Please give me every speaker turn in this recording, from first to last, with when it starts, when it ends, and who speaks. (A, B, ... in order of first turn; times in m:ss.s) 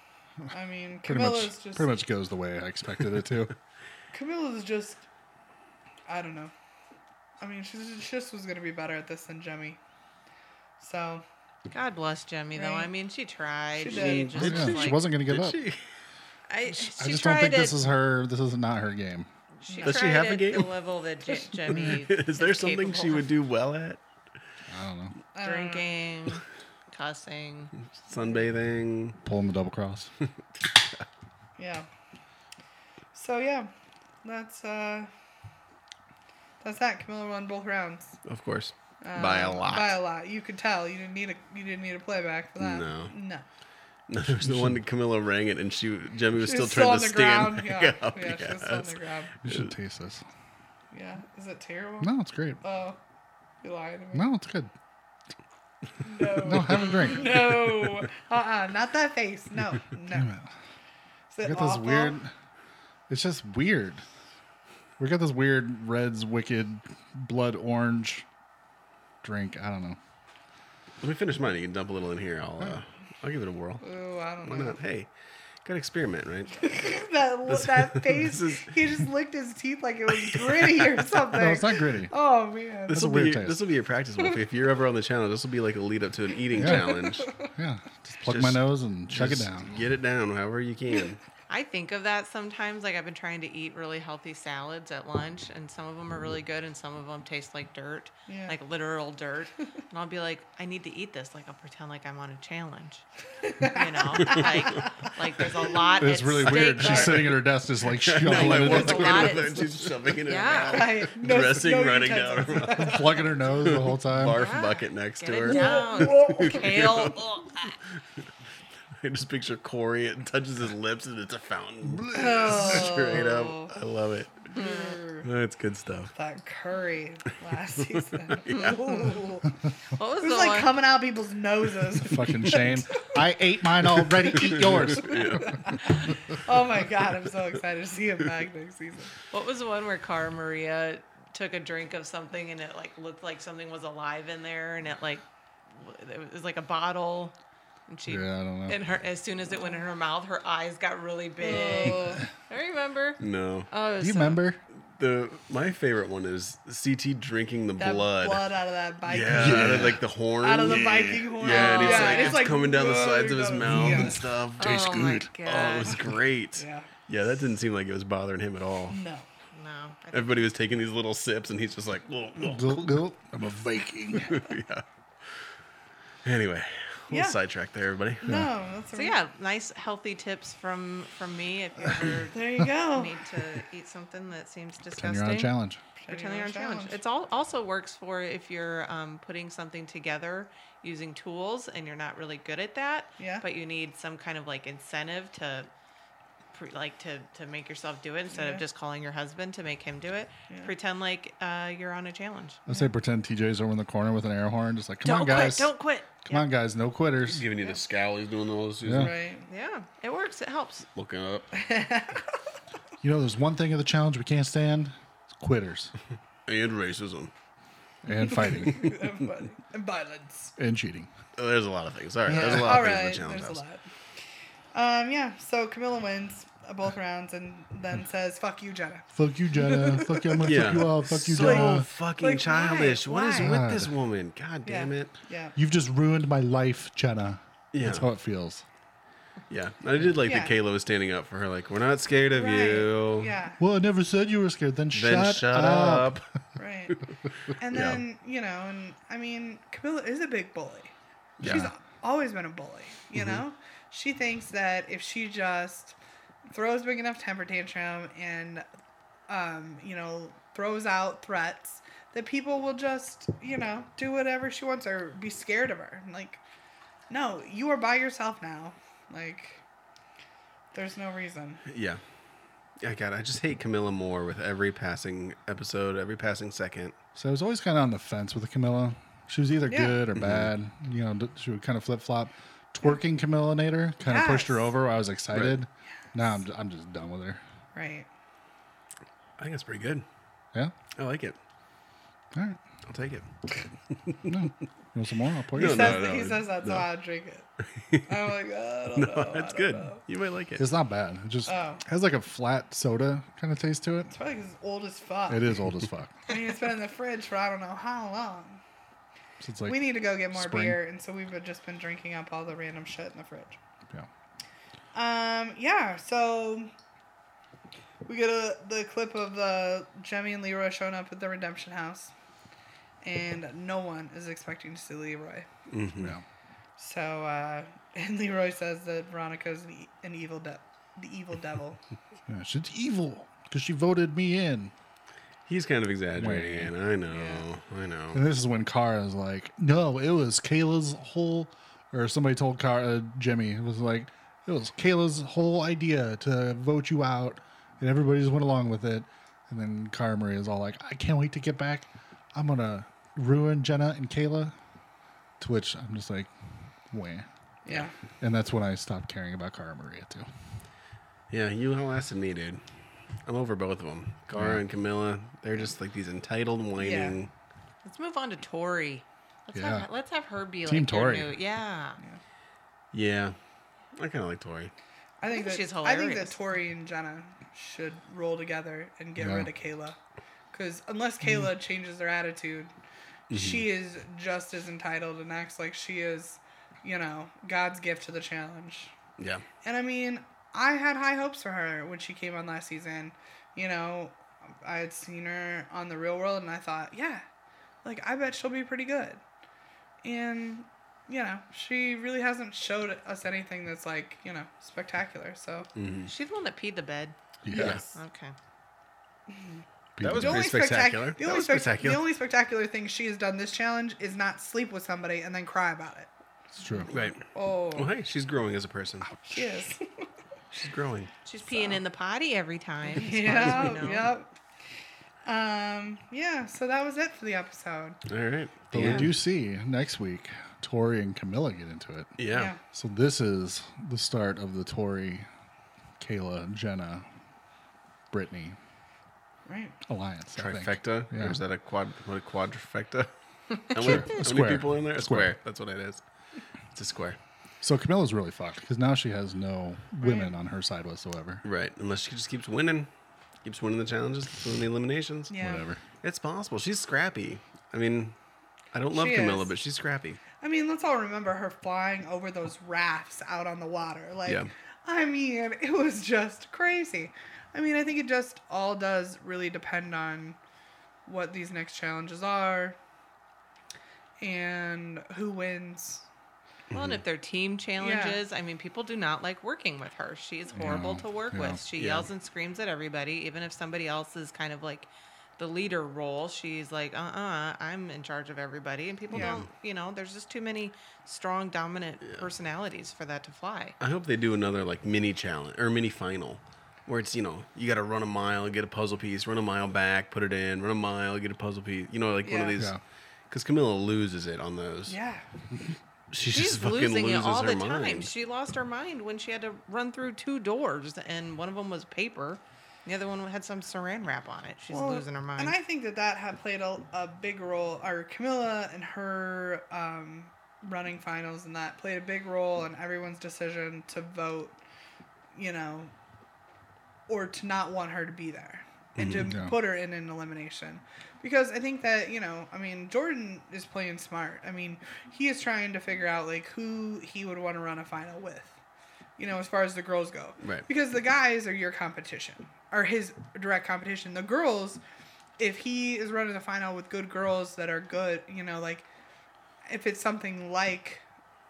0:00.5-0:02.0 A
0:01.0-0:03.5 B
0:04.1-0:05.0 A
0:06.1-0:06.5 A
0:07.4-0:09.8 A
0:10.8-0:11.2 A
0:11.7-0:15.1 C
0:12.5-0:12.9 A
0:13.8-0:14.5 A
0:13.9-0:15.8 D
0:14.4-0:15.6 B
0:16.5-0:17.8 C
0:16.7-0:19.3 B
0:19.6-0:23.3 C
0:19.7-0:20.1 A
0:19.8-0:20.8 D
0:21.7-0:24.0 D
0:24.7-0:25.1 B
0:25.3-0:25.9 A
0:25.4-0:27.8 C
0:27.9-0:29.2 D
0:28.2-0:28.4 A
0:29.2-0:30.1 B
0:31.6-0:31.9 A
0:33.1-0:33.7 A
0:34.2-0:35.1 A
0:36.6-0:38.2 A
0:38.3-0:40.0 D
0:39.0-0:43.4 A
0:42.6-0:43.1 D
0:44.1-0:49.7 D
0:44.2-0:44.8 B
0:46.4-0:49.4 A
0:49.4-0:50.2 B
0:50.9-0:53.0 A
0:52.0-0:52.6 B
0:53.6-0:54.3 A
0:54.1-0:54.7 B
0:56.0-1:00.3 A
0:56.4-0:57.6 B
1:00.1-1:00.5 B
1:01.3-1:02.2 A
1:01.4-1:02.3 B
1:03.1-1:04.0 B
1:05.0-1:08.3 B
1:09.2-1:10.0 B
1:11.0-1:13.8 D
1:13.8-1:14.8 A
1:14.4-1:15.1 D
1:15.6-1:16.9 D
1:16.6-1:23.0 A
1:17.5-1:18.8 D
1:20.3-1:20.9 D
1:21.3-1:22.1 B
1:22.9-1:23.6 B
1:22.9-1:27.4 D
1:26.5-1:29.7 B
1:26.6-1:27.4 A
1:28.2-1:31.2 D
1:31.5-1:43.1 C
1:38.3-1:38.5 A
1:43.4-1:45.1 A
1:43.6-1:47.4 C
1:44.2-1:44.8 D
1:46.0-1:49.7 B
1:46.4-1:57.3 D
1:48.2-1:51.1 C
1:50.7-1:53.3 A
1:52.8-1:54.4 B
1:54.3-1:57.8 C
1:55.4-1:56.7 A
1:59.0-2:04.5 D
2:01.9-2:02.9 B
2:02.1-2:03.7 A
2:04.5-2:05.3 A
2:04.5-2:05.0 C
2:05.2-2:06.1 D
2:06.1-2:09.5 A
2:08.3-2:09.2 D
2:10.0-2:10.8 C
2:10.2-2:13.1 A
2:12.0-2:15.5 B
2:14.3-2:15.9 D
2:14.3-2:19.1 A
2:19.3-2:27.4 C
2:27.9-2:34.4 C
2:28.1-2:28.8 B
2:31.4-2:32.2 A
2:33.2-2:33.7 D
2:34.0-2:34.6 B
2:34.9-2:38.5 D
2:37.8-2:39.9 A
2:39.1-2:44.9 D
2:39.3-2:40.0 B
2:40.4-2:44.2 A
2:41.4-2:42.5 C
2:43.6-2:45.3 B
2:44.6-2:46.1 C
2:45.4-2:49.0 D
2:46.6-2:46.9 A
2:48.9-2:49.3 A
2:49.5-2:50.5 C
2:50.1-2:53.0 D
2:52.4-2:54.4 B
2:54.1-2:54.8 D
2:56.2-2:58.4 D
2:57.1-2:57.4 A
2:58.2-2:59.2 A
2:58.9-3:05.6 C
3:01.9-3:03.3 A
3:05.0-3:05.8 B
3:06.0-3:07.0 A
3:06.1-3:15.7 C
3:13.2-3:13.4 A
3:16.5-3:22.6 C
3:18.3-3:18.6 A
3:22.7-3:25.7 B
3:22.7-3:22.9 A
3:25.0-3:26.5 C
3:26.2-3:27.5 B
3:27.2-3:29.2 D
3:28.8-3:29.1 B
3:29.0-3:29.5 A
3:29.5-3:30.9 C
3:30.9-3:31.5 D
3:31.5-3:32.4 A
3:33.0-3:35.9 B
3:36.5-3:37.3 D
3:38.0-3:38.9 B
3:38.3-3:40.6 A
3:38.7-3:39.0 D
3:40.6-3:41.1 B
3:41.4-3:43.6 D
3:42.3-3:42.8 B
3:42.3-3:43.8 A
3:44.7-3:49.1 A
3:49.1-3:51.9 B
3:49.6-3:50.7 A
3:50.4-3:55.1 D
3:51.3-3:53.6 A
3:53.3-3:53.9 B
3:54.6-3:55.6 A
3:55.6-3:58.6 B
3:57.7-3:58.1 D
3:59.5-4:03.3 D
4:00.2-4:00.6 A
4:02.3-4:03.6 A
4:03.6-4:06.2 B
4:04.9-4:06.3 D
4:06.6-4:07.0 A
4:07.6-4:16.0 A
4:07.7-4:08.0 D
4:11.4-4:11.7 D
4:11.4-4:11.7 B
4:13.2-4:13.4 D
4:16.5-4:18.6 A
4:19.3-4:26.4 A
4:27.1-4:29.6 A
4:30.7-4:31.6 A
4:31.7-4:32.0 D
4:32.8-4:37.0 D
4:37.2-4:47.4 B
4:39.7-4:40.0 A
4:40.1-4:40.5 D
4:44.0-4:44.8 A
4:45.3-4:45.6 D
4:47.8-4:48.1 A
4:49.4-4:50.1 D
4:51.0-4:51.4 D
4:52.9-4:53.3 D
4:54.1-4:54.3 D
4:54.3-4:56.0 B
4:55.5-4:56.9 D
4:55.5-4:57.5 A
4:57.6-4:58.3 D
4:58.1-5:00.0 A
4:59.0-5:00.7 D
5:00.6-5:04.1 B
5:01.5-5:01.8 A
5:04.1-5:05.5 A
5:05.3-5:06.3 B
5:06.3-5:08.6 A
5:09.4-5:10.8 B
5:09.7-5:13.6 A
5:14.9-5:16.7 A
5:18.1-5:22.1 A
5:23.0-5:25.5 A
5:25.7-5:26.2 D
5:26.0-5:26.2 B
5:26.8-5:31.8 A
5:32.3-5:34.7 B
5:35.5-5:38.2 D
5:36.2-5:36.7 B
5:37.1-5:37.4 A
5:38.1-5:54.6 B
5:55.4-5:56.3 B
5:56.9-5:57.3 B
5:57.6-5:57.9 A
5:58.2-6:00.3 B
6:01.3-6:02.6 D
6:03.2-6:07.3 D
6:04.4-6:04.6 B
6:06.8-6:07.2 A
6:07.8-6:12.0 C
6:09.5-6:09.9 B
6:10.7-6:11.3 B
6:12.9-6:13.4 D
6:13.9-6:14.7 D
6:15.2-6:20.0 A
6:15.3-6:16.4 C
6:19.2-6:19.5 B
6:20.5-6:22.7 A
6:23.3-6:23.6 D
6:23.3-6:28.9 A
6:29.2-6:29.4 D
6:29.6-6:37.2 A
6:37.8-6:39.2 A
6:40.0-6:45.7 A
6:45.8-6:46.1 D
6:46.1-6:47.2 C
6:47.4-6:47.8 B
6:47.5-6:47.8 D
6:47.9-6:48.4 C
6:49.3-6:49.6 A
6:50.0-6:50.5 B
6:50.0-6:52.0 D
6:50.1-6:56.1 A
6:56.6-6:56.9 B
6:56.8-6:57.9 A
6:56.9-6:59.1 D
6:59.2-7:00.0 A
7:00.5-7:01.1 D
7:01.2-7:04.1 C
7:01.4-7:01.8 A
7:02.9-7:04.3 A
7:05.2-7:08.0 A
7:08.1-7:09.1 D
7:08.7-7:15.3 B
7:12.2-7:12.5 D
7:12.3-7:12.6 A
7:16.0-7:17.1 B
7:18.1-7:18.6 B
7:19.5-7:19.8 A
7:19.9-7:21.4 B
7:20.4-7:23.1 D
7:23.6-7:26.0 D
7:23.8-7:25.3 B
7:26.7-7:27.2 D
7:27.6-7:31.4 B
7:30.0-7:30.4 A
7:31.4-7:32.9 D
7:33.4-7:35.3 D
7:35.3-7:35.7 A
7:35.4-7:35.8 B
7:36.0-7:38.2 D
7:38.7-7:40.2 D
7:38.9-7:39.5 A
7:40.4-7:50.4 A
7:51.1-7:52.8 A
7:54.2-7:56.1 A
7:56.7-7:57.0 D
7:56.7-8:13.8 C
7:57.8-7:58.2 A
8:00.6-8:01.6 B
8:01.8-8:02.1 D
8:09.1-8:09.5 A
8:13.8-8:22.8 D
8:22.2-8:22.6 A
8:22.6-8:22.8 B
8:23.3-8:25.0 D
8:24.9-8:25.2 A
8:26.1-8:28.1 D
8:26.2-8:35.6 C
8:34.7-8:44.6 A
8:45.3-8:45.9 A
8:47.1-8:58.6 A
8:49.0-8:49.3 D
8:49.2-8:49.5 B
8:59.2-9:04.8 A
9:00.4-9:00.7 D
9:05.4-9:08.9 A
9:09.7-9:11.0 A